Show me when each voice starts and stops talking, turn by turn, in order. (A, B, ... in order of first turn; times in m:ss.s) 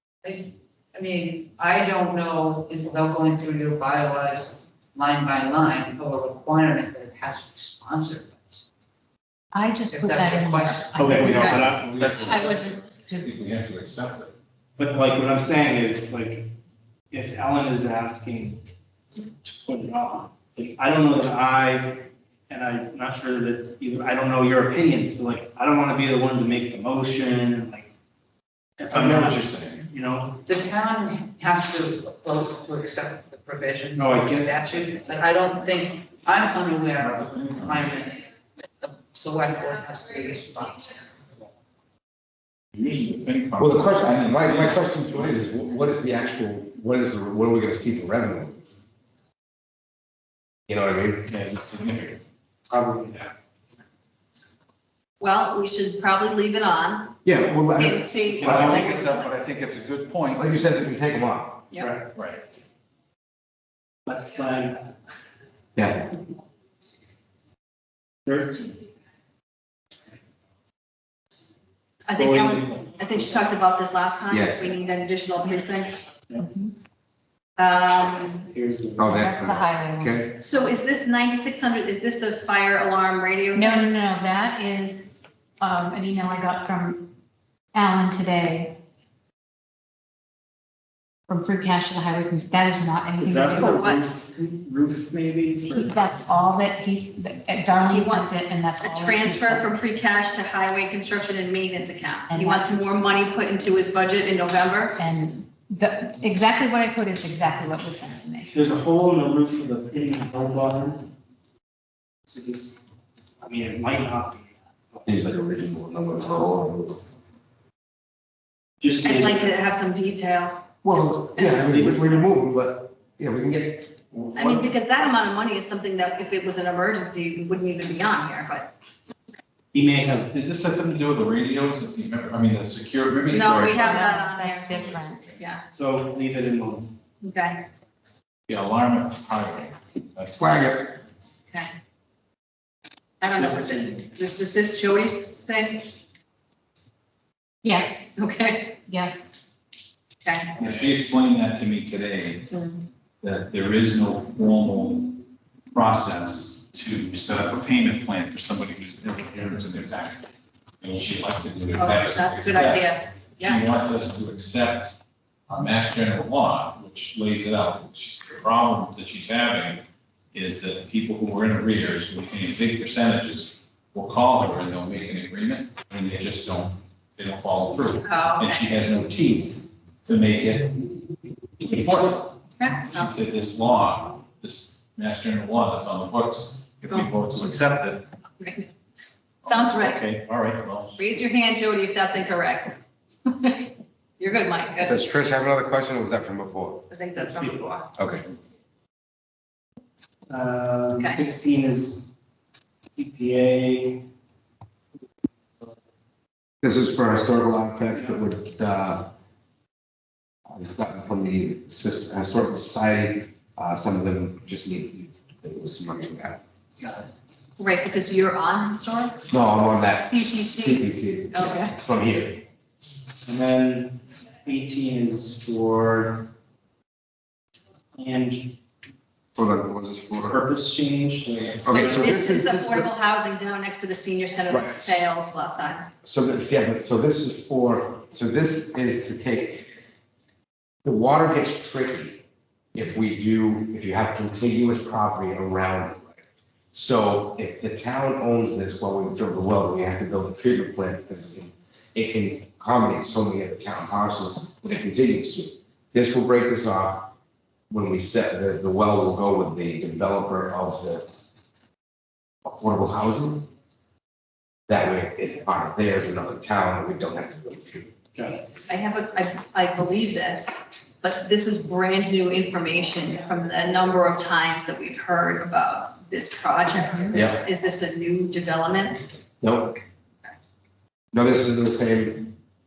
0:00.2-0:08.6 A
0:09.5-0:11.5 B
0:09.8-0:11.4 A
0:11.0-0:12.6 C
0:11.0-0:14.3 D
0:11.4-0:11.6 E
0:12.2-0:13.4 B
0:14.8-0:16.5 C
0:17.1-0:18.6 C
0:19.4-0:27.9 C
0:28.8-0:30.4 C
0:28.9-0:29.8 D
0:30.5-0:38.3 A
0:34.0-0:34.6 C
0:37.0-0:38.1 D
0:38.8-0:41.0 A
0:42.7-0:45.6 D
0:43.6-0:48.8 F
0:50.7-0:51.3 F
0:51.2-0:52.2 D
0:52.7-0:53.4 C
0:55.2-0:57.2 E
0:57.2-0:58.7 F
0:57.8-0:59.3 E
0:58.4-1:00.6 D
0:58.5-0:58.9 C
1:00.4-1:01.7 F
1:01.8-1:02.1 C
1:02.2-1:02.4 D
1:04.1-1:04.9 C
1:05.8-1:06.1 F
1:08.3-1:08.7 C
1:12.0-1:16.0 E
1:12.1-1:13.3 C
1:14.3-1:14.7 F
1:16.4-1:16.7 B
1:17.6-1:18.5 E
1:18.5-1:19.3 C
1:19.0-1:20.3 F
1:19.1-1:20.2 B
1:20.4-1:23.8 E
1:23.5-1:27.1 B
1:27.7-1:28.8 B
1:31.3-1:33.8 B
1:33.2-1:35.9 C
1:33.6-1:34.1 E
1:35.7-1:39.8 B
1:37.9-1:45.0 E
1:42.3-1:42.9 B
1:45.0-1:48.5 B
1:48.5-1:51.1 C
1:52.3-1:52.8 C
1:53.4-1:55.2 C
1:55.0-1:57.0 F
1:58.8-1:59.5 C
1:59.0-2:01.6 E
2:00.8-2:04.7 F
2:01.4-2:02.2 C
2:04.4-2:08.7 E
2:09.7-2:10.3 C
2:10.3-2:14.1 D
2:13.3-2:15.6 E
2:13.7-2:15.3 B
2:14.7-2:15.4 D
2:15.7-2:17.0 C
2:17.2-2:17.6 B
2:18.5-2:20.6 D
2:20.4-2:21.0 F
2:23.2-2:25.9 E
2:23.4-2:24.1 C
2:27.6-2:29.5 B
2:28.2-2:28.8 E
2:30.2-2:30.6 E
2:30.6-2:32.5 D
2:32.5-2:32.9 E
2:33.2-2:35.2 D
2:35.7-2:40.3 D
2:40.8-3:00.8 D
2:41.8-2:43.7 E
2:58.0-2:58.8 E
3:01.6-3:08.0 D
3:02.6-3:03.1 E
3:08.4-3:08.7 E
3:09.4-3:10.0 E
3:09.4-3:11.2 D
3:11.0-3:15.0 E
3:14.8-3:16.9 F
3:16.9-3:17.9 E
3:17.2-3:17.8 C
3:18.0-3:18.2 F
3:20.3-3:22.1 C
3:21.0-3:21.2 E
3:23.0-3:24.0 C
3:26.6-3:29.1 F
3:27.9-3:28.2 C
3:30.5-3:36.4 F
3:36.8-3:37.1 C
3:37.6-3:39.2 E
3:39.3-3:42.4 F
3:40.0-3:41.8 E
3:43.2-3:46.3 C
3:48.0-3:48.6 C
3:49.3-3:50.4 F
3:50.3-3:52.2 C
3:51.6-3:52.9 F
3:51.7-3:55.9 E
3:54.5-3:55.0 F
3:56.0-3:59.7 F
4:00.8-4:02.2 F
4:02.7-4:06.2 F
4:06.7-4:17.1 F
4:17.7-4:21.0 F
4:22.4-4:23.5 F
4:24.7-4:27.9 F
4:28.2-4:28.5 C
4:28.7-4:39.0 E
4:36.8-4:37.1 B
4:37.1-4:37.4 F
4:39.4-4:39.8 F
4:41.1-4:42.3 F